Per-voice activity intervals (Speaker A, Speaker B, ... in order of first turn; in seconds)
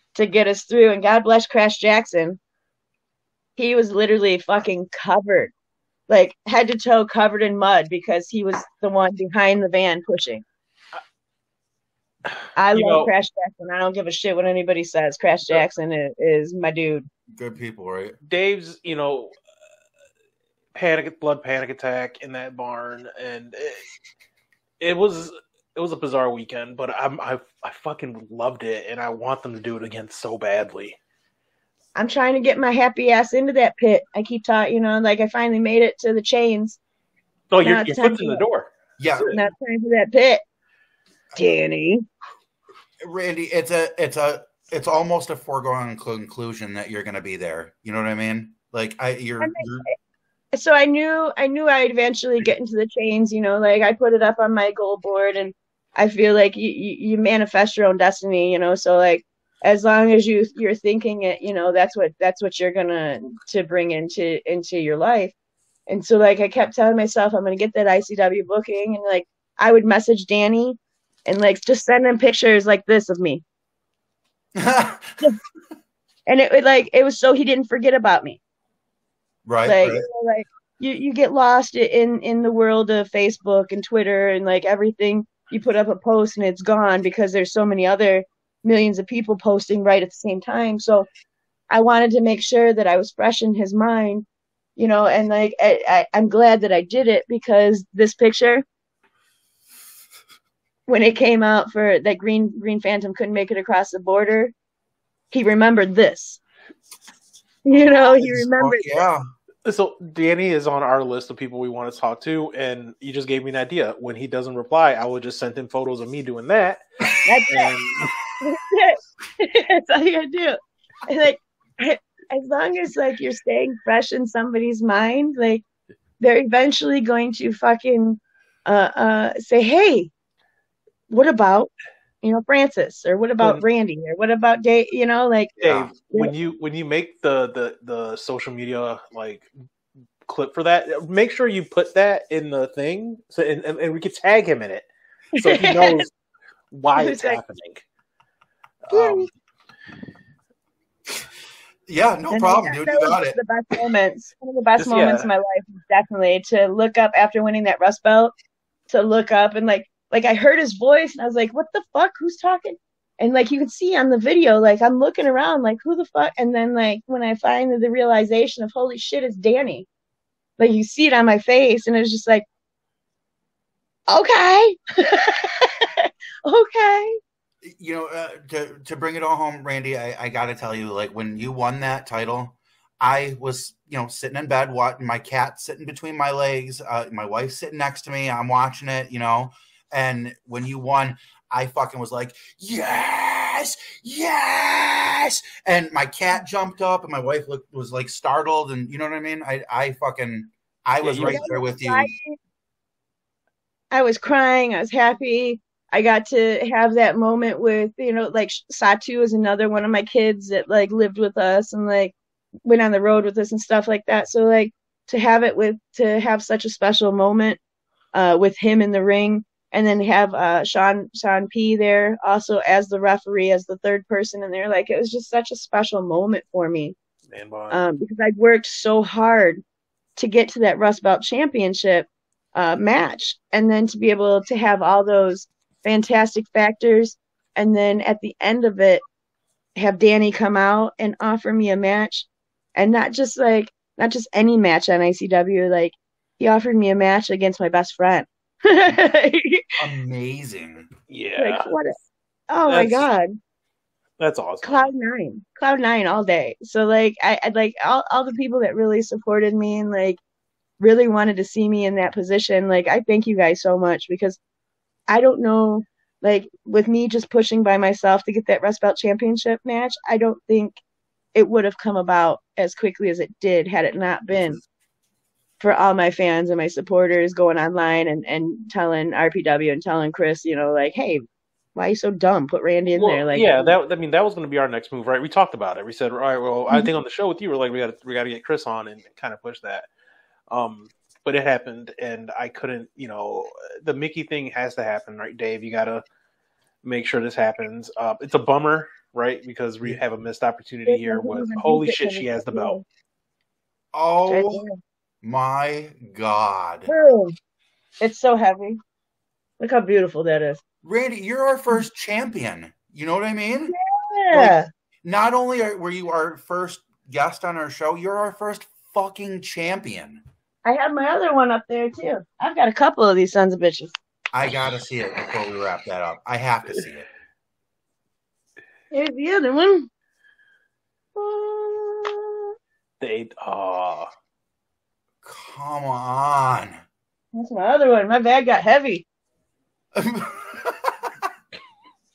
Speaker A: 0.1-2.4, 3.6-5.5, 6.1-10.4, 12.6-17.1, 32.0-36.8, 37.6-38.4, 39.3-40.4, 41.4-42.0, 49.4-49.9, 50.5-65.3, 65.9-73.4, 76.3-78.4, 79.7-91.1, 91.7-94.2, 94.8-98.6, 100.9-104.5, 105.3-106.4, 107.7-109.0, 117.2-117.7, 118.4-125.6, 126.2-130.1, 131.1-131.7, 132.2-136.3, 145.3-146.1, 147.0-147.4, 148.9-149.2, 152.3-158.3, 158.9-169.9, 170.6-172.4, 174.1-177.2, 201.2-202.4, 203.9-212.1, 212.7-217.6, 218.1-226.9, 227.7-229.6, 230.2-239.0, 239.8-249.7, 251.4-253.4, 254.6-260.2, 260.8-264.4, 265.1-270.8, 271.4-274.6, 275.6-283.8, 300.9-302.8, 304.3-304.8, 306.9-307.4, 308.0-308.8, 309.6-310.6, 313.7-314.7, 320.6-324.0, 328.9-329.9, 331.2-332.5, 337.3-339.1
Speaker B: 12.7-13.1, 18.2-19.3, 20.8-23.8, 24.8-31.0, 37.5-39.4, 109.7-116.8, 117.5-118.1, 135.6-139.5, 140.3-146.1, 146.7-147.8, 148.9-149.3, 154.8-155.3, 201.0-201.4, 227.3-227.8, 251.1-251.8, 252.7-253.1, 254.2-254.9, 282.9-289.9, 290.5-296.0, 296.8-302.8, 333.0-334.1
Speaker C: 17.3-18.2, 39.0-39.3, 43.0-49.9, 74.6-75.2, 79.5-80.0, 107.8-109.2, 135.7-135.9, 148.9-149.2, 151.9-153.4, 177.6-202.1, 249.8-250.9, 303.9-304.7, 305.2-306.9, 310.8-313.7, 314.3-320.2, 324.3-327.1, 335.2-336.8, 339.9-341.3